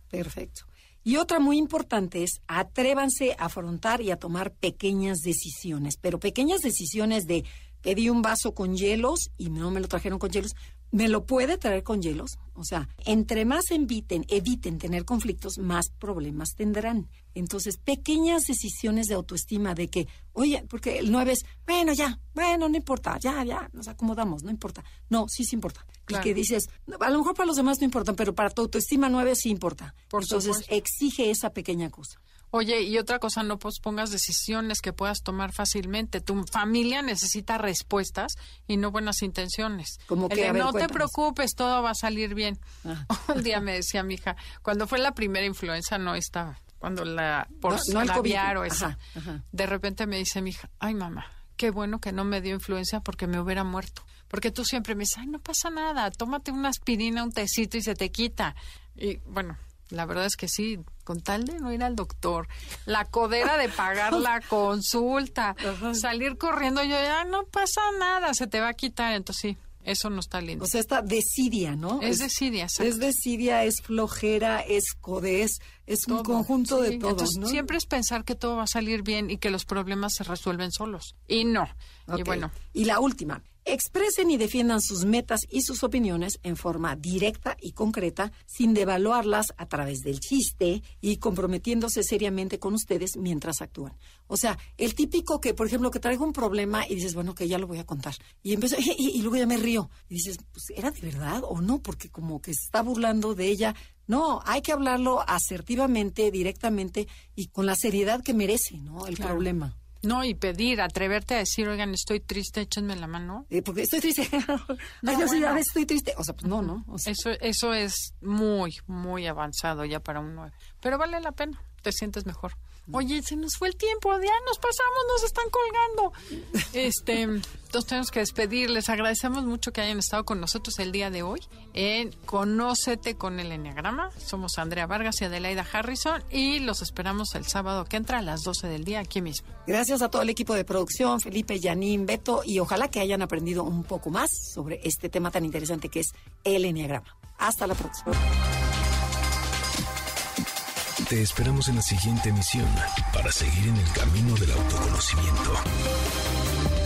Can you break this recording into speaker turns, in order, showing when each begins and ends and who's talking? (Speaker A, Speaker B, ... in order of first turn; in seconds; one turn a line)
Speaker A: 0.1-32.2
Speaker B: 26.1-26.3
Speaker B: 30.1-30.7
Speaker B: 32.5-48.9
Speaker A: 40.1-41.1
Speaker A: 47.7-49.4
Speaker B: 49.5-70.7
Speaker A: 65.6-66.0
Speaker A: 70.6-77.7
Speaker B: 72.0-73.0
Speaker B: 76.1-82.5
Speaker A: 82.1-109.8
Speaker B: 109.2-109.4
Speaker B: 110.0-113.5
Speaker A: 113.5-117.1
Speaker B: 115.0-115.6
Speaker B: 117.0-139.5
Speaker A: 139.7-148.2
Speaker C: 151.0-155.6